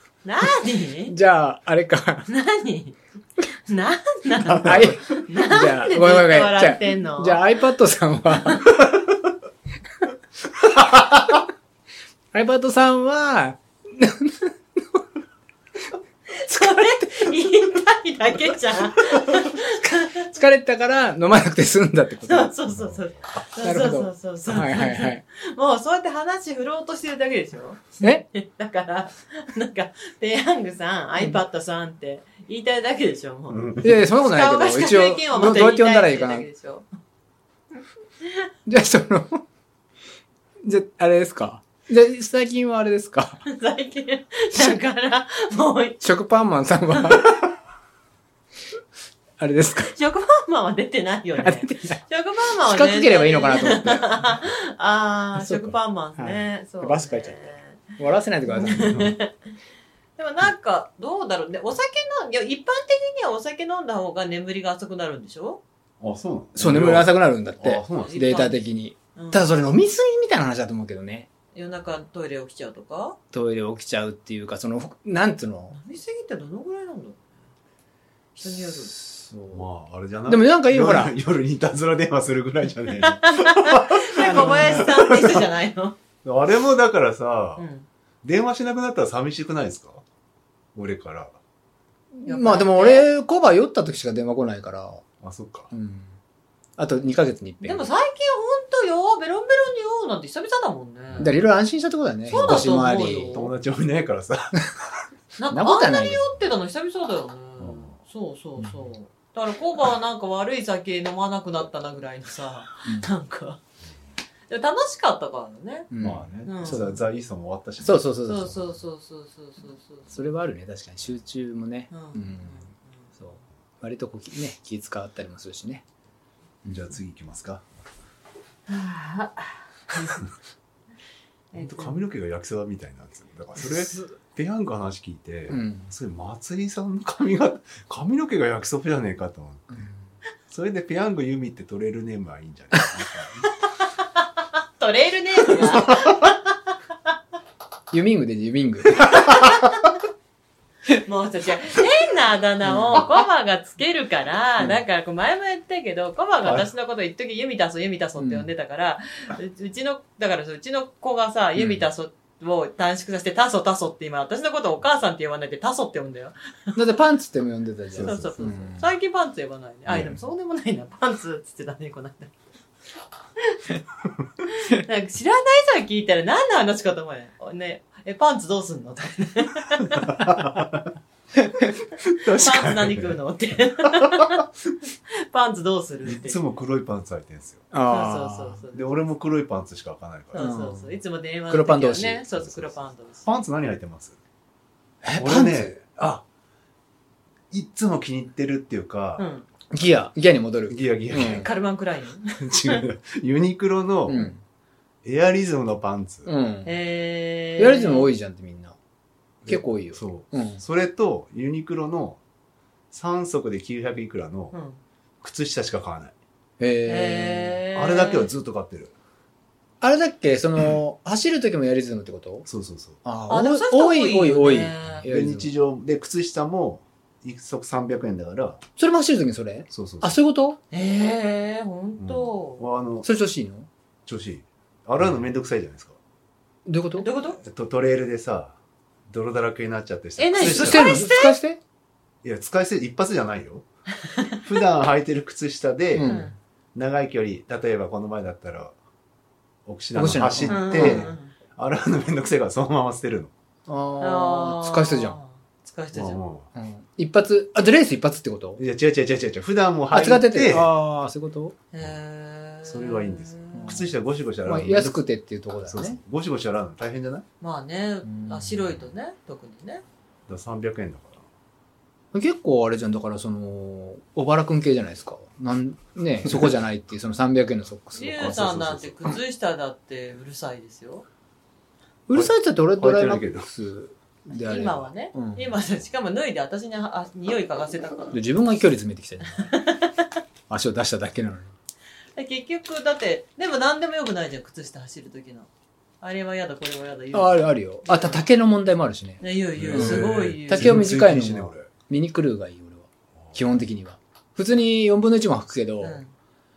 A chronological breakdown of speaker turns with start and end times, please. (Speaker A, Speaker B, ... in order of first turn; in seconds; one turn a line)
Speaker A: 0.2-1.1
Speaker B: 1.1-2.3
Speaker A: 2.3-3.0
Speaker A: 3.7-7.4
Speaker C: 4.4-4.9
Speaker B: 4.6-8.7
Speaker B: 12.3-15.0
Speaker A: 16.3-20.4
Speaker B: 20.3-22.5
Speaker A: 22.2-36.9
Speaker C: 22.7-23.0
Speaker B: 23.6-25.2
Speaker C: 33.5-34.0
Speaker B: 33.8-36.5
Speaker B: 38.6-39.4
Speaker B: 40.6-43.4
Speaker A: 43.5-46.0
Speaker B: 46.0-47.4
Speaker B: 49.4-49.9
Speaker A: 49.9-59.3
Speaker B: 51.4-52.0
Speaker B: 52.6-54.1
Speaker B: 55.4-59.1
Speaker A: 60.2-65.6
Speaker C: 66.0-68.3
Speaker B: 66.5-71.3
Speaker A: 68.0-68.6
Speaker A: 69.2-69.5
Speaker A: 71.5-73.2
Speaker B: 73.3-75.8
Speaker A: 75.7-77.2
Speaker A: 78.4-78.9
Speaker B: 78.4-79.7
Speaker C: 79.5-85.5
Speaker B: 80.3-81.1
Speaker A: 83.0-86.0
Speaker B: 84.3-84.8
Speaker C: 86.2-87.6
Speaker A: 87.6-87.8
Speaker C: 88.2-90.0
Speaker C: 90.7-91.3
Speaker B: 92.2-95.0
Speaker A: 92.2-93.1
Speaker C: 95.2-95.7
Speaker B: 95.7-96.1
Speaker B: 96.8-97.9
Speaker A: 97.6-101.3
Speaker C: 101.1-101.4
Speaker B: 101.2-103.4
Speaker A: 102.3-103.5
Speaker C: 102.3-102.7
Speaker C: 103.3-104.7
Speaker A: 105.4-113.6
Speaker B: 105.5-106.2
Speaker C: 107.6-108.0
Speaker A: 114.5-115.9
Speaker B: 115.9-116.8
Speaker C: 116.0-118.1
Speaker A: 116.4-117.0
Speaker B: 117.8-118.7
Speaker A: 118.2-120.1
Speaker B: 120.1-122.7
Speaker A: 121.9-122.8
Speaker B: 123.2-125.8
Speaker C: 126.7-127.6
Speaker A: 128.7-130.2
Speaker A: 131.5-132.0
Speaker C: 131.6-139.8
Speaker B: 135.5-135.9
Speaker C: 140.5-143.5
Speaker A: 144.1-146.4
Speaker B: 147.9-149.6
Speaker A: 149.2-149.8
Speaker A: 150.9-166.8
Speaker B: 152.7-153.0
Speaker B: 158.2-158.5
Speaker B: 161.6-161.8
Speaker B: 166.8-168.8
Speaker C: 167.9-168.3
Speaker A: 167.9-172.3
Speaker C: 169.8-170.2
Speaker A: 173.4-173.7
Speaker A: 174.4-180.3
Speaker C: 179.9-180.9
Speaker C: 182.0-183.2
Speaker A: 182.2-184.4
Speaker C: 183.8-184.4
Speaker A: 185.1-186.4
Speaker C: 186.1-187.7
Speaker B: 187.7-188.6
Speaker A: 187.9-188.8
Speaker C: 188.7-190.5
Speaker A: 190.3-193.2
Speaker B: 190.4-190.9
Speaker B: 191.5-192.2
Speaker C: 192.4-194.2
Speaker B: 195.0-195.7
Speaker C: 195.2-196.2
Speaker C: 197.5-199.3
Speaker A: 199.2-199.5
Speaker B: 199.7-201.5
Speaker C: 200.7-201.5
Speaker A: 201.2-202.8
Speaker C: 202.4-204.3
Speaker B: 204.1-204.4
Speaker C: 205.0-206.3
Speaker B: 206.2-206.7
Speaker A: 206.6-208.1
Speaker B: 207.6-208.8
Speaker C: 209.4-212.2
Speaker B: 209.4-210.6
Speaker C: 212.9-214.5
Speaker A: 214.5-214.8
Speaker C: 215.2-216.1
Speaker B: 216.6-217.6
Speaker A: 216.8-218.3
Speaker C: 217.7-218.9
Speaker B: 219.8-222.4
Speaker C: 222.4-223.0
Speaker B: 223.0-225.5
Speaker A: 223.3-225.1
Speaker C: 225.0-228.6
Speaker B: 228.8-230.6
Speaker C: 229.7-230.2
Speaker A: 230.7-232.6
Speaker C: 232.0-233.1
Speaker B: 233.0-233.7
Speaker C: 234.1-236.0
Speaker B: 236.7-237.1
Speaker A: 237.0-237.4
Speaker C: 237.4-238.6
Speaker C: 239.1-240.9
Speaker A: 240.2-241.4
Speaker B: 240.4-241.6
Speaker C: 242.2-243.7
Speaker A: 244.0-244.4
Speaker C: 244.3-246.1
Speaker B: 245.9-246.3
Speaker A: 246.0-246.3
Speaker C: 246.7-248.7
Speaker C: 249.7-253.3
Speaker B: 249.9-251.2
Speaker A: 250.5-251.3
Speaker B: 253.7-255.2
Speaker A: 254.0-256.2
Speaker C: 255.9-256.5
Speaker B: 256.5-258.6
Speaker C: 258.6-260.7
Speaker B: 259.9-261.5
Speaker A: 261.7-263.8
Speaker C: 262.6-265.0
Speaker B: 263.5-263.9
Speaker B: 264.4-266.0
Speaker C: 265.6-267.2
Speaker A: 267.4-269.8
Speaker B: 268.1-268.8
Speaker C: 270.3-271.2
Speaker B: 272.1-278.5
Speaker A: 277.9-281.1
Speaker C: 278.1-279.1
Speaker B: 282.1-285.6
Speaker C: 282.1-283.5
Speaker A: 284.3-288.1
Speaker B: 288.1-289.5
Speaker A: 289.4-290.1
Speaker B: 290.5-291.5
Speaker A: 292.1-295.5
Speaker A: 296.0-298.2
Speaker B: 297.1-306.0
Speaker A: 299.2-300.8
Speaker C: 299.6-301.7
Speaker A: 305.8-306.1